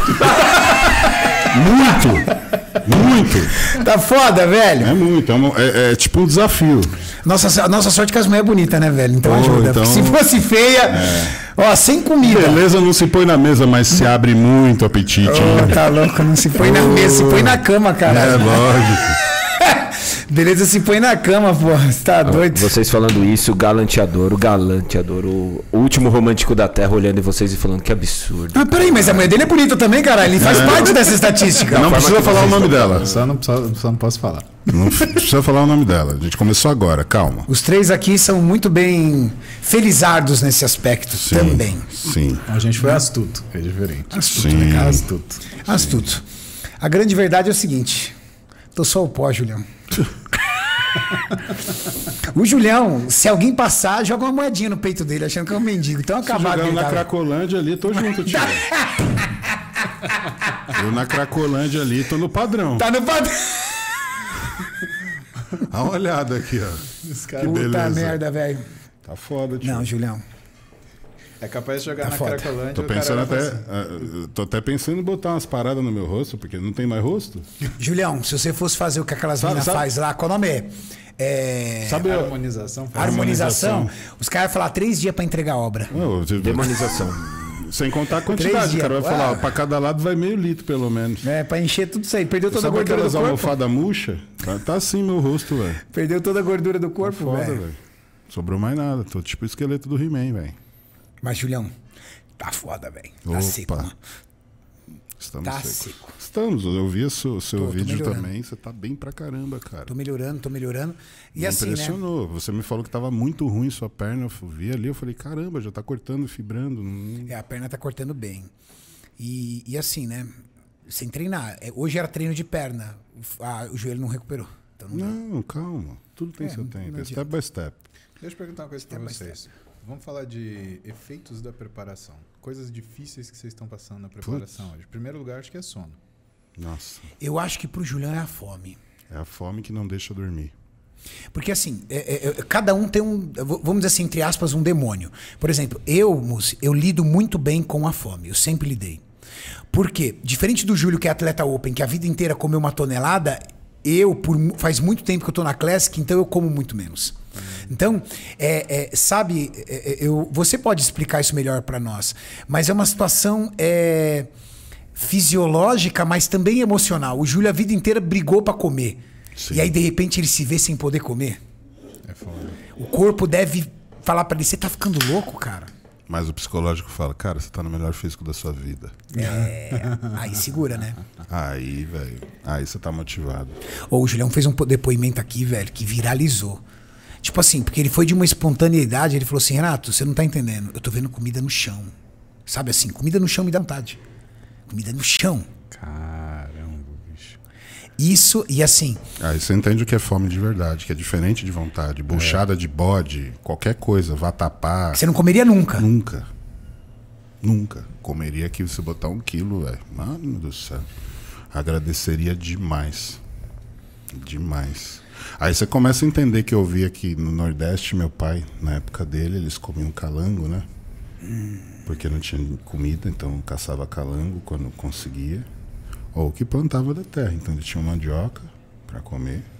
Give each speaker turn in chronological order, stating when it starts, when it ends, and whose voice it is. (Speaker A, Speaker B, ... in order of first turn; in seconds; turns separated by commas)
Speaker A: 0.2-1.1, Speaker B: 1.4-2.3, Speaker B: 2.8-3.5, Speaker A: 3.5-5.0, Speaker B: 4.8-7.0, Speaker A: 7.2-12.6, Speaker B: 9.2-10.2, Speaker B: 10.9-11.4, Speaker B: 12.2-15.9, Speaker A: 15.2-18.7, Speaker B: 16.6-19.2, Speaker A: 19.5-22.8, Speaker C: 22.2-29.3, Speaker A: 28.5-32.3, Speaker B: 30.4-31.1, Speaker C: 31.6-33.0, Speaker B: 31.7-33.2, Speaker D: 32.8-34.7, Speaker B: 34.7-37.5, Speaker A: 37.5-41.9, Speaker B: 41.2-42.5, Speaker D: 42.5-45.5, Speaker A: 44.1-46.2, Speaker B: 44.3-45.0, Speaker A: 46.8-48.1, Speaker A: 48.7-49.6, Speaker A: 52.3-57.1, Speaker B: 56.2-58.7, Speaker A: 58.0-60.4, Speaker B: 60.7-62.9, Speaker A: 62.8-64.4, Speaker B: 65.7-68.2, Speaker D: 67.0-67.5, Speaker A: 67.4-68.6, Speaker B: 69.0-69.9, Speaker A: 69.6-70.2, Speaker D: 71.4-73.7, Speaker A: 72.0-72.5, Speaker B: 72.7-77.5, Speaker A: 77.8-82.2, Speaker B: 79.4-79.9, Speaker B: 81.8-82.3, Speaker D: 82.1-83.4, Speaker A: 82.9-85.9, Speaker B: 83.0-83.9, Speaker B: 85.9-91.3, Speaker C: 86.4-87.2, Speaker A: 88.3-89.5, Speaker A: 91.2-93.6, Speaker B: 92.5-95.8, Speaker A: 95.9-97.6, Speaker B: 97.0-97.8, Speaker B: 98.3-100.6, Speaker A: 101.2-101.7, Speaker A: 102.4-104.0, Speaker B: 103.2-103.9, Speaker B: 105.2-109.9, Speaker A: 105.4-106.2, Speaker A: 107.6-108.3, Speaker A: 109.9-112.0, Speaker B: 111.3-117.3, Speaker A: 117.3-118.5, Speaker A: 119.2-120.3, Speaker A: 120.9-125.2, Speaker B: 124.9-127.8, Speaker A: 126.4-127.2, Speaker D: 128.2-136.0, Speaker A: 128.8-129.4, Speaker B: 134.2-134.7, Speaker B: 136.6-137.1, Speaker A: 137.2-138.8, Speaker B: 139.1-140.5, Speaker A: 141.3-149.0, Speaker A: 149.7-164.3, Speaker A: 164.9-171.4, Speaker B: 169.4-169.7, Speaker D: 172.1-172.6, Speaker A: 172.7-175.7, Speaker B: 176.1-179.0, Speaker A: 179.1-181.0, Speaker B: 181.3-183.6, Speaker A: 183.9-186.6, Speaker A: 187.2-191.9, Speaker A: 192.5-194.0, Speaker A: 194.7-195.5, Speaker D: 195.7-197.4, Speaker A: 198.0-199.0, Speaker B: 199.2-205.0, Speaker D: 202.1-202.4, Speaker A: 204.9-205.8, Speaker B: 205.8-206.3, Speaker B: 207.4-210.9, Speaker B: 211.5-213.2, Speaker B: 214.1-220.7, Speaker B: 221.8-225.5, Speaker B: 226.1-229.5